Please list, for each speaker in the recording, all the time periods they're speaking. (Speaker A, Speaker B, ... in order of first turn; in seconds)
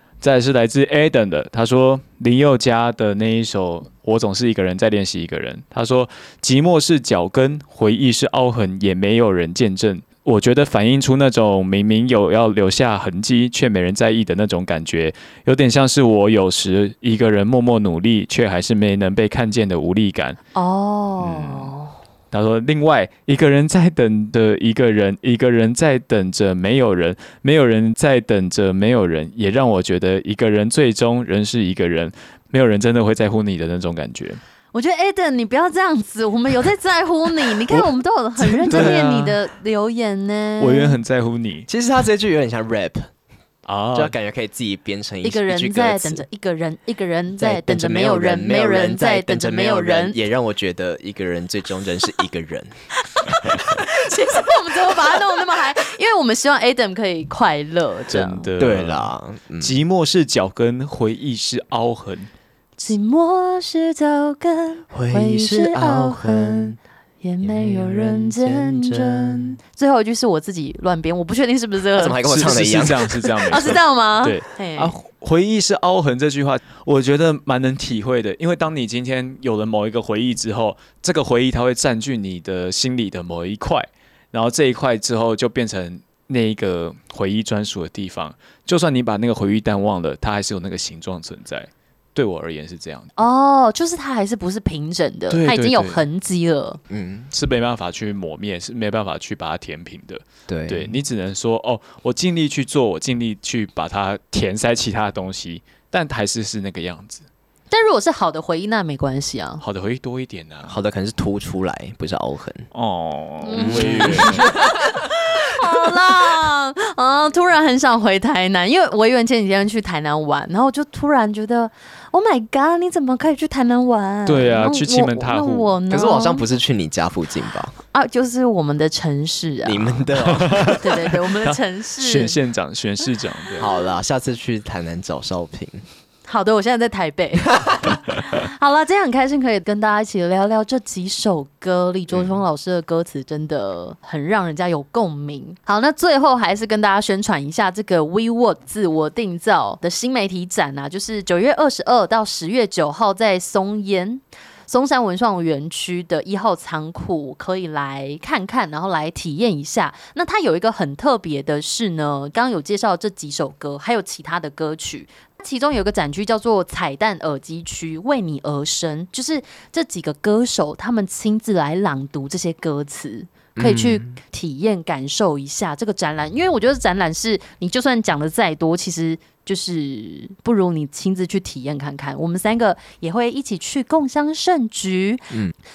Speaker A: 0.2-20.4, 21.2-21.7, 22.3-34.4, 38.7-39.3, 40.6-41.7, 43.6-44.1, 58.1-62.3, 72.2-93.1, 95.3-96.0, 97.3-107.2, 109.6-110.8, 112.7-114.5, 124.2-125.7, 130.3-133.7
Speaker B: 20.5-21.9, 34.7-41.0, 45.2-50.2, 53.2-58.5, 62.8-72.2, 73.4-74.9, 93.2-96.8, 107.7-109.6, 113.4-126.4, 127.9-132.4, 136.3-185.3
Speaker C: 38.6-39.2, 41.7-43.1, 43.9-46.2, 47.4-52.7, 58.6-59.8, 64.9-66.8, 67.4-69.6, 72.0-73.7, 96.9-97.3, 100.5-101.0, 110.7-112.7, 113.5-114.9, 125.9-127.7, 129.6-130.9, 133.6-135.8, 137.6-137.8, 173.6-174.2